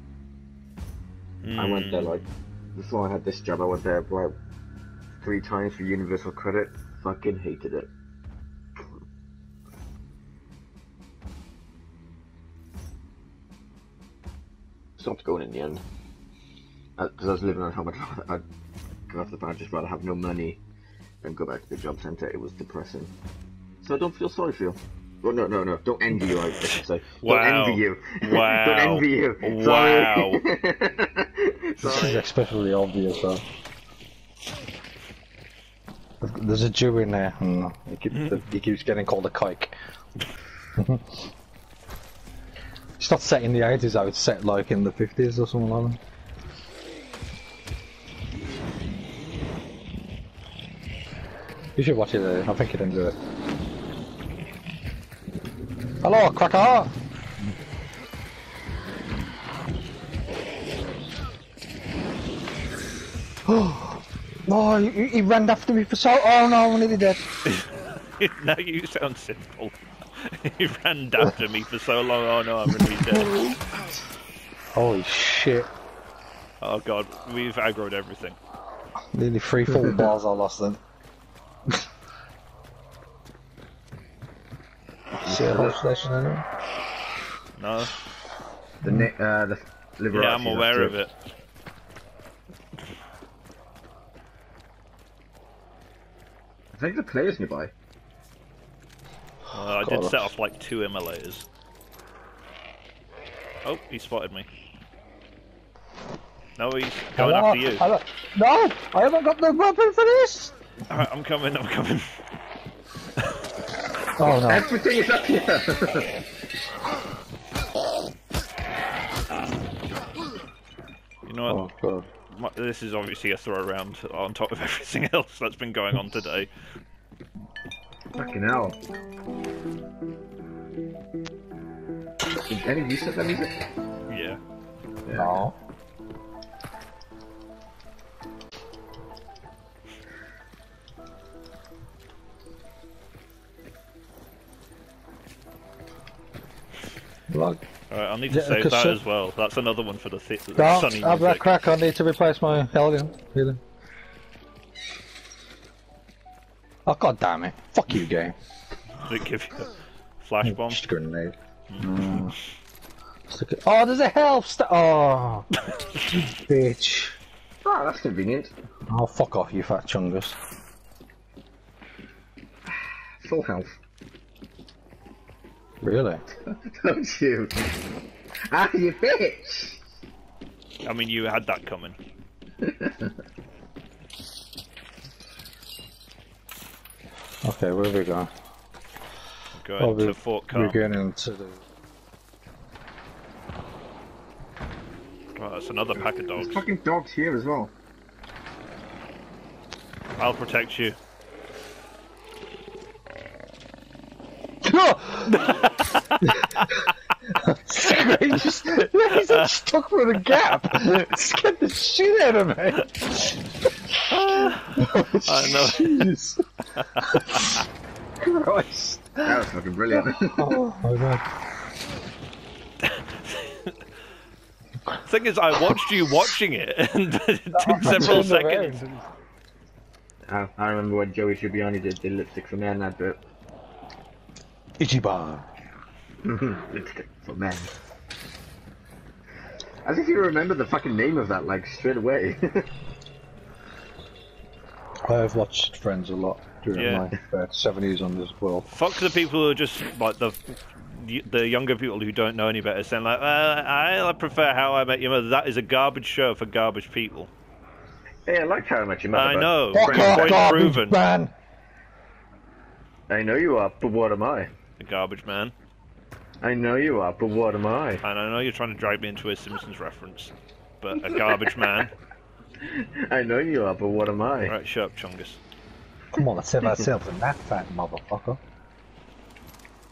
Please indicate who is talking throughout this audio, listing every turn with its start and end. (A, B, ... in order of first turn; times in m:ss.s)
0:01.4-0:02.2 A
0:01.5-0:02.2 B
0:02.7-0:04.3 B
0:05.2-0:07.9 B
0:15.0-0:15.8 B
0:17.0-0:18.4 B
0:19.1-0:20.6 B
0:21.2-0:23.1 B
0:23.8-0:32.2 B
0:27.2-0:30.4 A
0:31.8-0:33.4 C
0:36.2-0:39.7 C
0:40.8-0:41.2 C
0:43.0-0:46.0 C
0:51.8-0:53.1 C
0:56.0-0:56.9 C
1:03.4-1:07.2 C
1:07.4-1:13.4 A
1:14.7-1:15.7 C
1:16.6-1:18.4 A
1:19.1-1:20.8 C
1:25.2-1:25.8 B
1:25.2-1:26.4 C
1:27.6-1:27.9 A
1:28.8-1:31.0 B
1:28.8-1:29.1 C
1:30.1-1:31.1 A
1:36.7-1:37.7 B
1:39.5-1:41.4 A
1:39.7-1:40.3 C
1:43.6-1:44.5 A
1:46.6-1:47.8 A
1:47.2-1:50.5 C
1:50.9-1:52.0 A
1:54.2-1:54.7 C
1:54.4-1:56.1 B
2:01.2-2:01.7 A
2:01.5-2:02.1 C
2:02.3-2:06.5 A
2:08.1-2:08.8 B
2:12.5-2:13.6 B
2:14.1-2:14.4 A
2:15.0-2:15.4 B
2:15.1-2:15.5 C
2:27.3-2:27.6 C
2:27.9-2:31.4 A
2:28.3-2:29.0 C
2:30.6-2:33.6 C
2:36.8-2:38.3 C
2:39.0-2:40.8 A
2:40.4-2:42.3 C
2:41.7-2:42.3 A
2:43.3-2:45.5 C
2:46.1-2:47.2 C
2:47.6-2:48.5 B
2:48.9-2:50.4 C
2:53.2-2:53.8 B
2:55.8-2:56.2 C
2:56.4-2:57.7 B
2:58.5-2:59.8 B
3:00.8-3:02.0 A
3:02.6-3:03.1 B
3:07.4-3:08.3 C
3:09.5-3:10.8 A
3:09.8-3:11.6 C
3:15.3-3:16.6 A
3:16.3-3:17.7 B
3:20.2-3:21.0 A
3:24.6-3:25.5 C
3:25.3-3:26.7 A
3:27.3-3:33.3 C
3:29.1-3:29.5 A
3:34.1-3:36.1 A
3:34.3-3:36.4 C
3:36.8-3:37.6 A
3:36.9-3:37.4 C
3:38.2-3:39.4 C
3:39.2-3:40.6 B
3:39.9-3:41.2 C
3:42.8-3:43.7 A
3:45.0-3:48.8 A
3:47.5-3:49.1 C
3:50.3-3:53.2 B
3:54.8-3:55.4 C
3:56.2-3:57.7 B
3:59.8-4:02.7 B
4:05.0-4:08.7 C
4:06.7-4:07.1 A
4:08.7-4:17.3 A
4:18.2-4:20.5 B
4:19.1-4:21.0 A
4:19.7-4:21.3 C
4:23.1-4:24.5 B
4:24.8-4:25.5 A
4:26.4-4:28.0 B
4:28.0-4:31.9 A
4:32.6-4:34.5 B
4:34.4-4:35.4 A
4:36.1-4:38.4 C